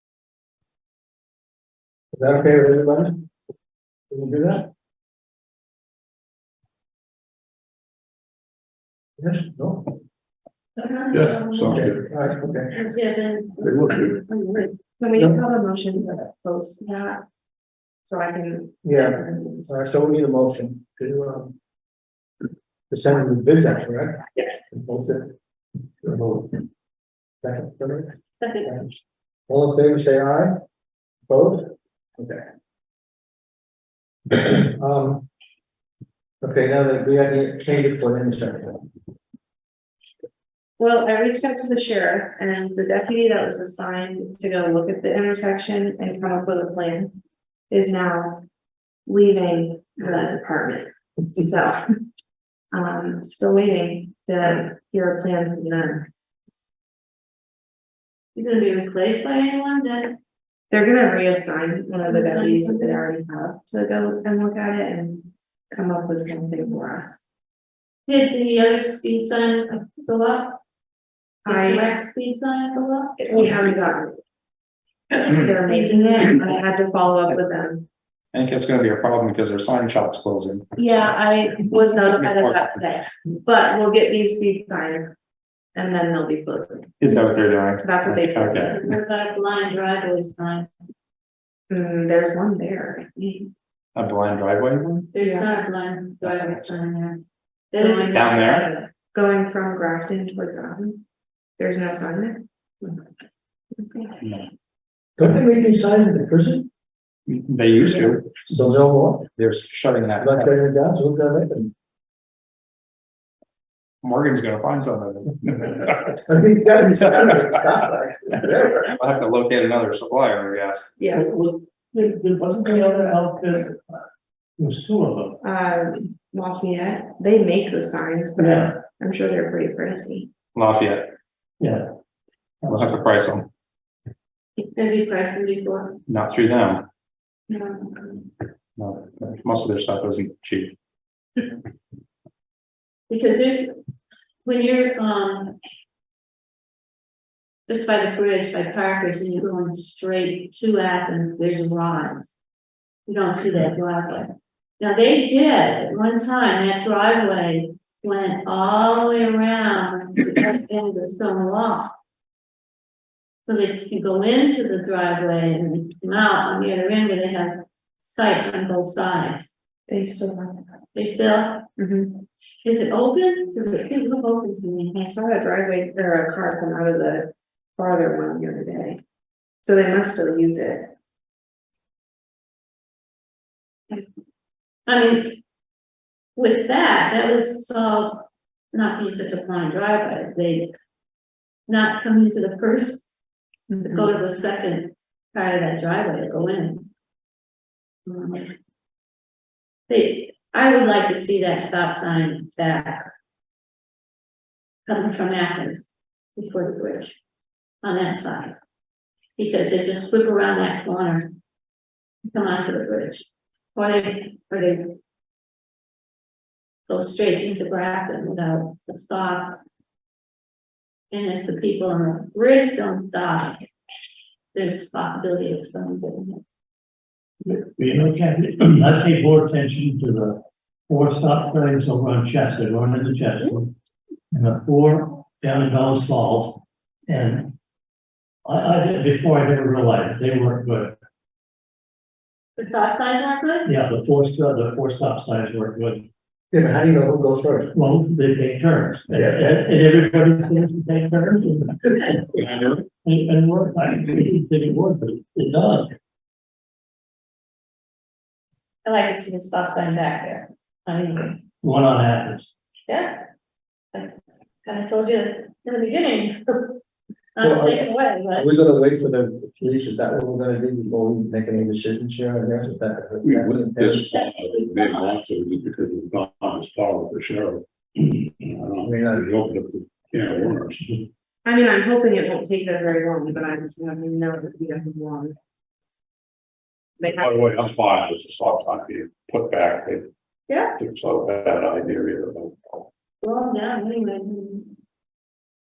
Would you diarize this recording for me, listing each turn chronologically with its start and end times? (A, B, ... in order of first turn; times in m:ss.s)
0:02.1-0:03.2 A
0:04.1-0:04.7 A
0:09.2-0:09.9 A
0:10.8-0:11.8 B
0:11.1-0:12.0 C
0:11.6-0:12.7 A
0:12.7-0:14.7 B
0:13.6-0:14.2 C
0:15.0-0:17.2 D
0:18.0-0:19.8 D
0:18.8-0:21.5 A
0:22.9-0:25.3 A
0:26.0-0:26.6 A
0:27.4-0:28.1 A
0:28.4-0:28.7 B
0:29.5-0:30.6 A
0:31.3-0:32.4 A
0:34.3-0:35.2 A
0:36.4-0:38.8 A
0:40.8-0:47.2 D
0:47.7-0:48.4 D
0:49.0-0:51.8 D
0:52.7-0:56.1 D
0:58.3-1:00.2 B
1:00.7-1:07.2 D
1:02.1-1:03.0 B
1:08.0-1:10.6 B
1:11.4-1:13.4 B
1:11.4-1:11.9 D
1:13.2-1:14.2 D
1:15.4-1:17.8 D
1:15.6-1:16.4 B
1:18.3-1:20.7 E
1:20.8-1:25.2 D
1:22.0-1:22.9 E
1:25.7-1:27.2 D
1:27.0-1:28.7 E
1:27.8-1:28.8 D
1:28.6-1:30.7 B
1:31.7-1:33.5 D
1:33.9-1:35.1 E
1:35.1-1:37.2 B
1:35.2-1:35.5 D
1:36.4-1:36.7 D
1:37.7-1:38.7 B
1:37.8-1:41.0 D
1:38.1-1:38.7 E
1:41.6-1:43.0 D
1:43.8-1:44.2 D
1:45.2-1:46.7 A
1:47.3-1:48.4 E
1:48.4-1:49.3 A
1:49.3-1:50.5 E
1:50.2-1:51.7 A
1:54.0-1:56.2 E
1:56.2-1:58.8 A
1:58.8-2:01.0 E
2:01.0-2:01.2 D
2:01.1-2:03.8 F
2:04.6-2:05.4 F
2:05.4-2:10.3 D
2:08.4-2:08.8 F
2:10.5-2:11.1 E
2:12.6-2:12.9 F
2:12.6-2:13.5 E
2:14.6-2:16.0 B
2:16.1-2:16.9 E
2:17.5-2:18.2 D
2:18.8-2:20.8 E
2:23.1-2:23.7 B
2:24.4-2:25.6 B
2:27.7-2:32.3 B
2:33.1-2:34.3 B
2:34.8-2:41.9 B
2:43.4-2:49.5 B
2:49.9-2:50.6 D
2:50.9-2:51.7 B
2:51.8-2:52.2 D
2:52.6-2:55.1 B
2:54.9-2:59.0 D
2:59.6-3:00.9 D
3:04.8-3:05.4 B
3:06.4-3:10.7 B
3:11.7-3:13.1 B
3:13.8-3:16.9 B
3:18.0-3:18.5 B
3:19.9-3:23.1 B
3:24.8-3:27.2 B
3:27.8-3:28.5 B
3:29.4-3:31.3 B
3:32.2-3:34.9 B
3:36.9-3:39.6 B
3:41.1-3:43.6 B
3:44.5-3:46.4 B
3:47.4-3:53.7 F
3:54.3-3:57.5 F
3:58.4-4:01.0 F
4:02.6-4:03.7 B
4:03.6-4:06.1 F
4:06.5-4:07.7 A
4:07.7-4:15.9 F
4:09.1-4:09.6 A
4:18.8-4:21.4 B
4:21.6-4:22.5 F
4:22.9-4:23.2 B
4:23.9-4:26.8 B
4:27.3-4:28.5 B
4:27.4-4:34.1 A
4:33.2-4:41.1 C
4:38.8-4:39.3 A
4:41.4-4:45.4 D
4:47.0-4:47.3 D
4:47.0-4:50.1 C
4:50.7-4:52.8 C
4:53.2-4:54.7 B